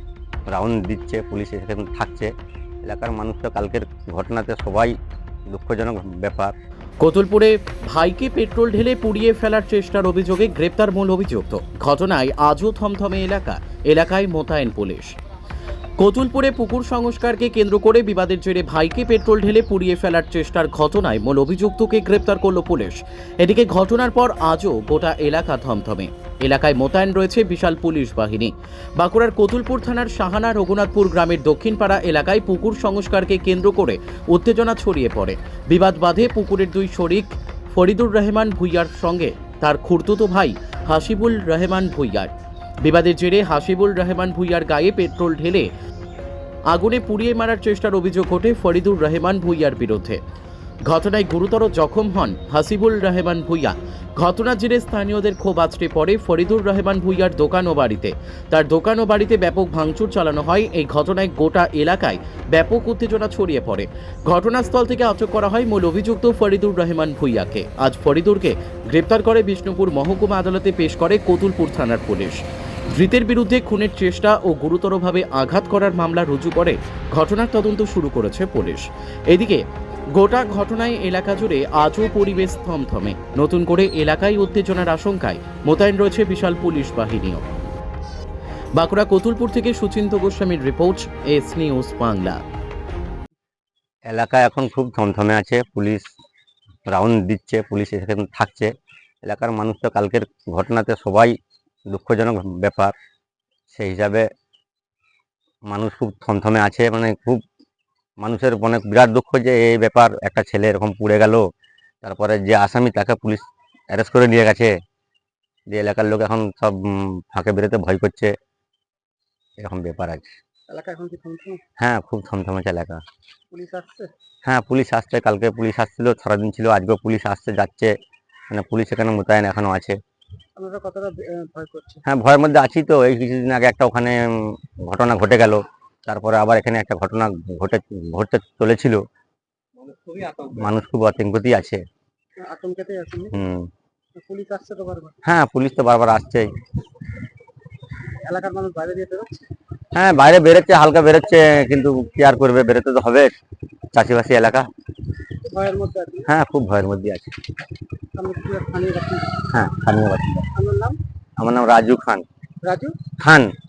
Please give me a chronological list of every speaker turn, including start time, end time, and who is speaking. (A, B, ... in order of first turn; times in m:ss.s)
0:00.5-0:02.3 A
0:02.8-0:05.0 A
0:05.5-0:06.5 A
0:07.0-0:15.2 B
0:16.0-0:42.3 B
0:42.8-0:45.7 B
0:46.7-0:50.2 B
0:50.8-1:12.4 B
1:12.9-1:19.6 B
1:20.1-1:27.4 B
1:28.8-1:32.4 B
1:34.1-1:36.0 A
1:36.9-1:38.7 A
1:39.2-1:41.3 A
1:41.9-1:42.9 A
1:43.7-1:44.3 A
1:45.7-1:47.4 A
1:48.2-1:51.4 A
1:52.0-1:54.7 A
1:55.7-1:58.3 A
1:59.6-2:00.2 A
2:00.7-2:01.6 C
2:01.8-2:03.0 A
2:03.5-2:04.1 C
2:04.4-2:07.9 A
2:08.5-2:10.0 A
2:10.6-2:12.0 C
2:12.0-2:19.0 A
2:20.1-2:21.8 A
2:22.4-2:23.3 C
2:23.3-2:23.7 A
2:24.2-2:25.2 C
2:25.2-2:26.5 A
2:28.2-2:29.4 C
2:29.9-2:33.3 A
2:33.9-2:34.7 A
2:35.4-2:36.3 C
2:36.2-2:37.3 A
2:38.2-2:39.4 C
2:39.5-2:40.5 A
2:40.5-2:41.0 C
2:41.4-2:42.2 A
2:42.6-2:43.0 C
2:43.2-2:43.5 A